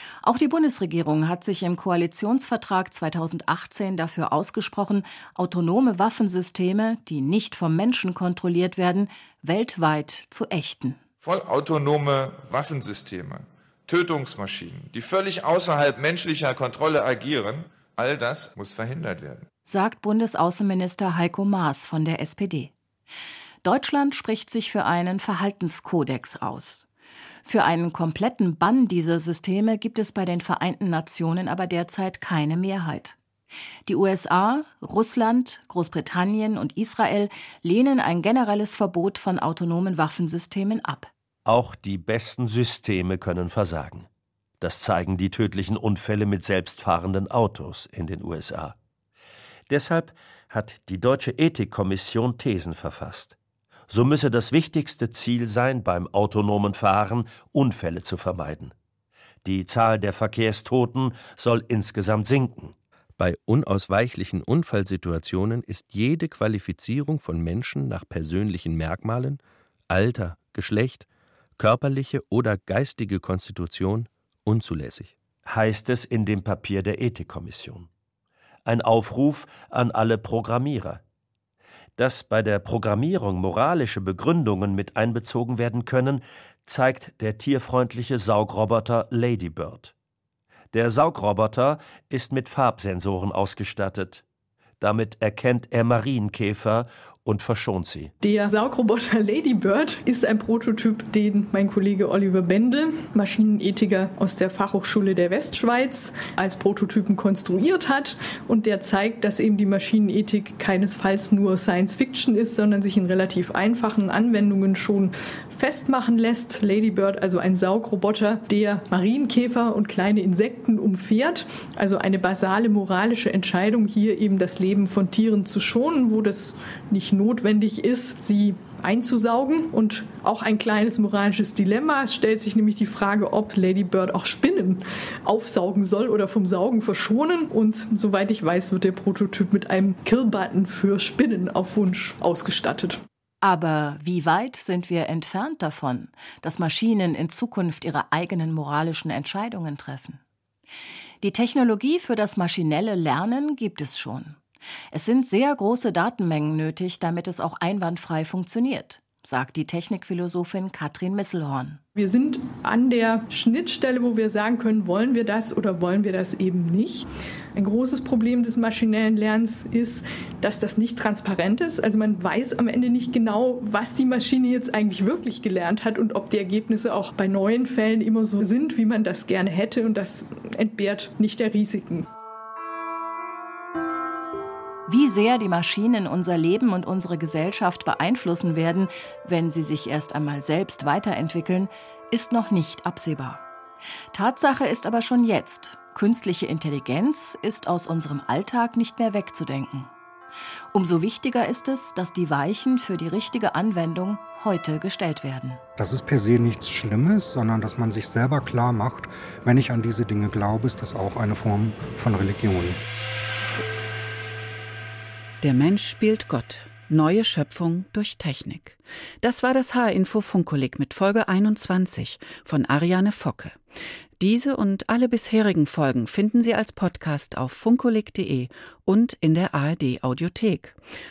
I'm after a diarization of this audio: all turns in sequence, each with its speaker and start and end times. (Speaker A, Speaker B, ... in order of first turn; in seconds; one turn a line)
Speaker A: 0.2-11.0
Speaker B: 11.2-19.5
Speaker A: 19.7-22.7
Speaker A: 23.6-26.9
Speaker A: 27.4-33.2
Speaker A: 33.9-41.1
Speaker C: 41.5-44.1
Speaker C: 44.6-48.8
Speaker C: 49.7-53.4
Speaker C: 53.9-58.7
Speaker C: 59.5-62.8
Speaker D: 63.2-75.1
Speaker C: 75.5-77.9
Speaker C: 78.7-81.0
Speaker C: 82.0-89.9
Speaker C: 90.7-94.2
Speaker C: 94.8-98.1
Speaker E: 98.2-143.0
Speaker A: 143.4-150.2
Speaker A: 151.2-154.4
Speaker A: 154.9-161.8
Speaker E: 162.0-182.1
Speaker A: 184.9-193.4
Speaker A: 194.1-199.9
Speaker A: 200.7-205.6
Speaker F: 205.8-212.8
Speaker G: 215.4-223.6
Speaker G: 224.2-230.8